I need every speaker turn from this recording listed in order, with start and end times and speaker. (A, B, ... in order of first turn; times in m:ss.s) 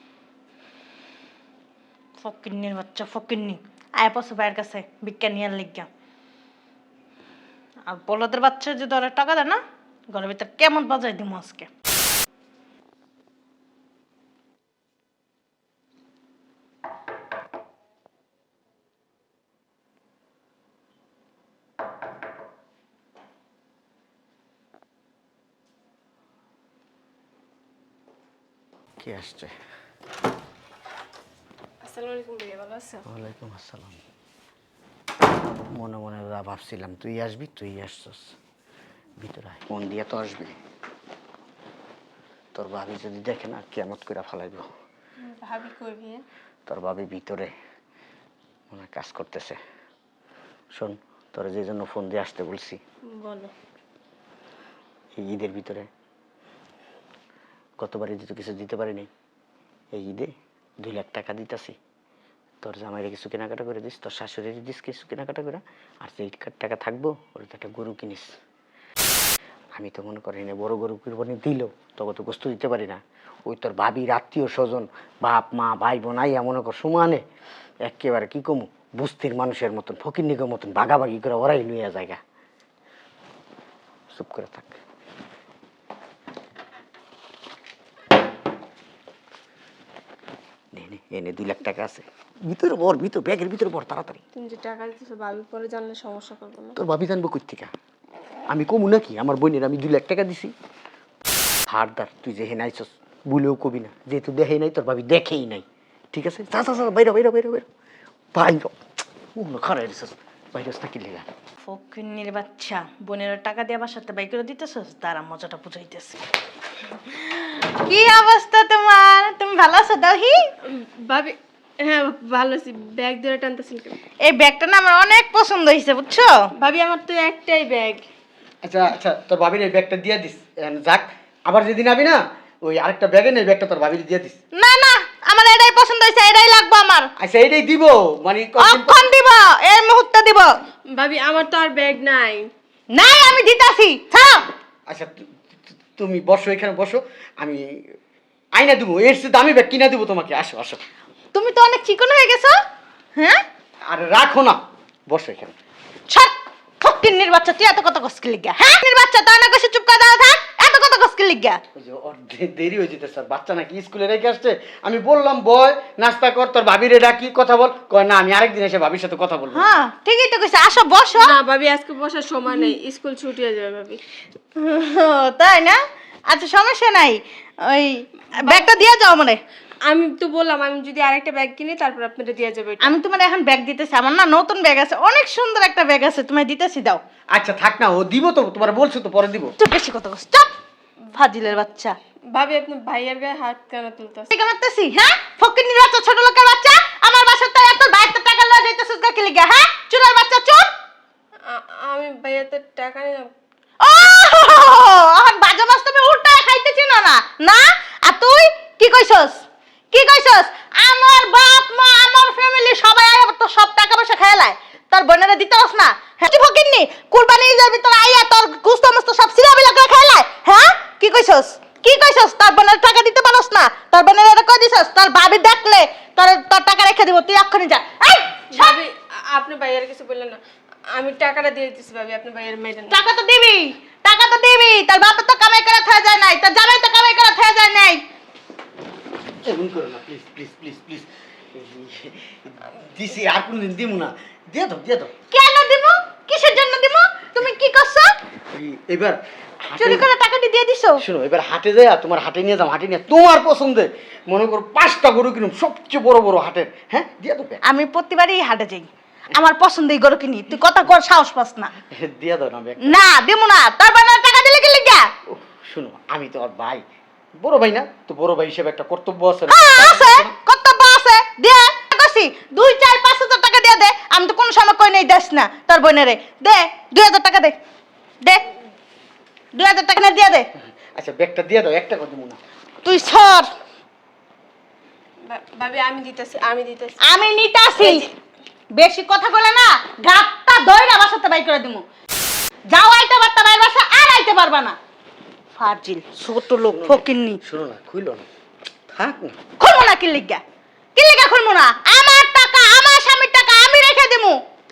0:02.2-0:05.9 A
0:07.9-0:09.6 A
0:10.1-0:11.7 A
0:29.0-0:29.5 B
0:31.8-0:33.0 C
0:33.0-0:34.0 B
0:35.7-0:38.3 B
0:39.2-0:40.5 B
0:42.5-0:44.7 B
0:45.2-0:46.2 C
0:46.7-0:47.5 B
0:48.7-0:49.6 B
0:50.7-0:52.8 B
0:53.1-0:53.5 C
0:55.2-0:55.9 B
0:57.8-0:59.1 B
0:59.9-1:01.8 B
1:02.6-1:08.3 B
1:09.7-1:17.2 B
1:17.8-1:22.2 B
1:24.1-1:24.8 B
1:30.7-1:34.2 B
1:34.3-1:36.8 C
1:36.8-1:37.7 B
1:38.5-1:40.5 B
1:41.7-1:47.6 B
1:48.3-1:48.7 B
1:49.3-1:51.3 B
1:51.6-1:56.2 A
1:57.2-2:00.5 A
2:00.6-2:04.0 C
2:04.2-2:06.5 A
2:06.6-2:08.0 C
2:08.6-2:14.4 B
2:14.5-2:17.1 A
2:17.2-2:19.1 B
2:18.6-2:20.5 A
2:20.9-2:22.5 C
2:22.9-2:24.5 A
2:24.9-2:27.8 B
2:28.5-2:30.8 B
2:31.3-2:32.6 A
2:33.2-2:33.4 A
2:33.9-2:34.6 B
2:35.1-2:35.5 B
2:36.1-2:41.6 A
2:41.7-2:49.7 B
2:49.5-2:51.3 A
2:51.2-2:54.0 C
2:54.6-2:59.4 A
2:58.4-2:58.8 C
2:59.9-3:03.0 C
3:02.8-3:07.0 A
3:07.3-3:09.5 B
3:09.6-3:10.5 A
3:11.1-3:12.0 A
3:12.3-3:14.3 C
3:14.3-3:20.7 A
3:21.5-3:23.3 C
3:23.8-3:48.8 A
3:48.5-3:50.4 C
3:50.9-3:53.0 C
3:52.9-3:58.0 A
3:59.4-4:05.1 B
4:05.3-4:08.1 A
4:08.5-4:10.1 B
4:09.8-4:11.0 A
4:11.0-4:17.6 B
4:17.6-4:21.7 A
4:21.9-4:23.0 B
4:22.8-4:25.1 A
4:25.3-4:26.8 B
4:27.4-4:30.3 B
4:29.5-4:37.6 A
4:39.5-4:40.5 A
4:40.9-4:42.4 B
4:42.8-4:43.5 A
4:45.2-4:47.0 C
4:47.0-4:48.0 A
4:47.8-4:48.1 C
4:48.7-4:51.8 A
4:52.7-4:54.8 A
4:55.6-4:57.4 A
4:56.7-4:58.2 B
4:58.9-4:59.4 B
4:59.6-5:00.4 A
5:01.0-5:04.4 A